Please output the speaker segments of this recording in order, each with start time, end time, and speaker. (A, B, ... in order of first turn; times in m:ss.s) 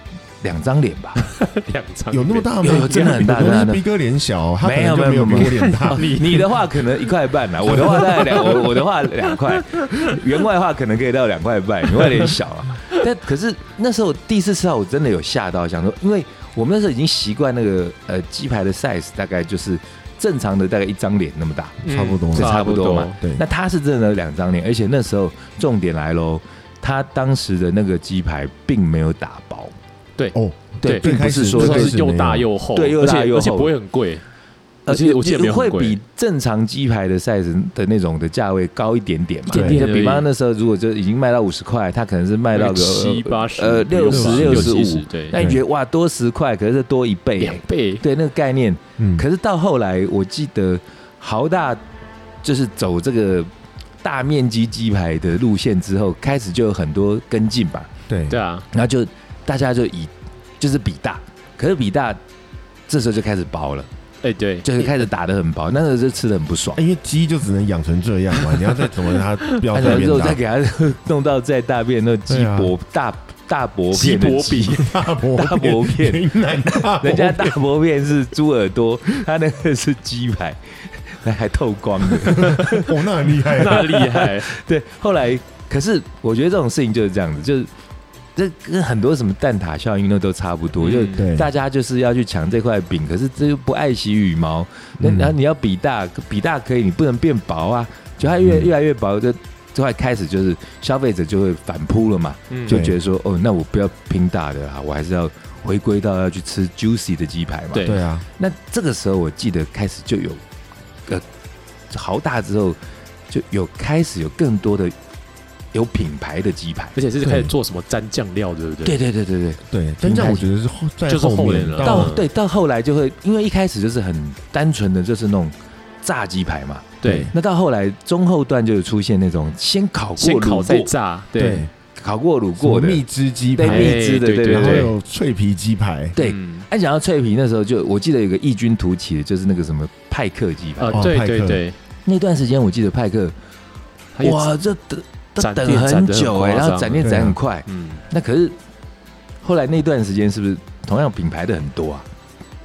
0:00.4-0:01.2 A
0:01.2-0:03.6 B
0:02.1-0:06.2 C
0:02.6-0:03.8 A
0:04.6-0:21.8 A
0:05.2-0:07.1 B
0:07.6-0:10.2 B
0:12.0-0:13.0 B
0:21.8-0:22.6 C
0:21.8-0:23.2 B
0:22.3-0:29.7 A
0:23.1-0:23.4 C
0:30.2-0:34.2 B
0:30.3-0:32.5 C
0:30.8-0:32.0 A
0:32.7-0:33.7 A
0:34.8-0:51.8 A
0:34.9-0:36.0 B
0:39.5-0:40.3 B
0:39.5-0:39.9 C
0:42.5-0:45.4 B
0:44.1-0:44.8 C
0:45.3-0:45.6 C
0:47.4-0:48.0 B
0:49.0-0:49.2 C
0:52.4-0:53.5 A
0:54.0-0:57.9 A
0:58.1-0:58.4 C
0:58.3-0:58.7 B
0:58.7-1:02.2 A
1:02.9-1:03.9 A
1:04.2-1:05.0 B
1:04.6-1:06.8 A
1:06.8-1:10.4 C
1:08.4-1:09.6 B
1:09.7-1:22.9 A
1:12.3-1:12.7 C
1:13.9-1:14.8 B
1:14.8-1:17.6 C
1:22.2-1:23.9 C
1:22.4-1:24.6 B
1:23.6-1:27.7 A
1:28.4-1:50.4 A
1:30.8-1:31.2 B
1:31.1-1:31.5 C
1:35.0-1:35.3 C
1:38.4-1:38.7 C
1:42.5-1:42.8 B
1:42.7-1:42.9 C
1:47.7-1:48.0 B
1:47.8-1:48.2 C
1:51.9-1:54.9 A
1:55.7-1:57.0 A
1:57.0-1:59.0 B
1:57.2-1:57.5 C
1:58.8-2:00.4 A
1:59.7-2:02.1 C
2:01.1-2:02.2 B
2:01.8-2:10.9 A
2:07.0-2:07.3 B
2:07.0-2:07.3 C
2:10.2-2:11.6 B
2:11.4-2:11.7 C
2:11.9-2:13.0 A
2:12.6-2:16.1 C
2:13.5-2:14.9 A
2:13.6-2:14.9 B
2:16.2-2:21.0 A
2:16.2-2:16.6 B
2:20.8-2:21.8 B
2:20.9-2:21.6 C
2:22.0-2:23.3 A
2:24.2-2:24.5 B
2:24.2-2:28.6 A
2:25.4-2:27.1 B
2:27.0-2:27.4 C
2:27.6-2:28.0 B
2:29.4-2:32.0 A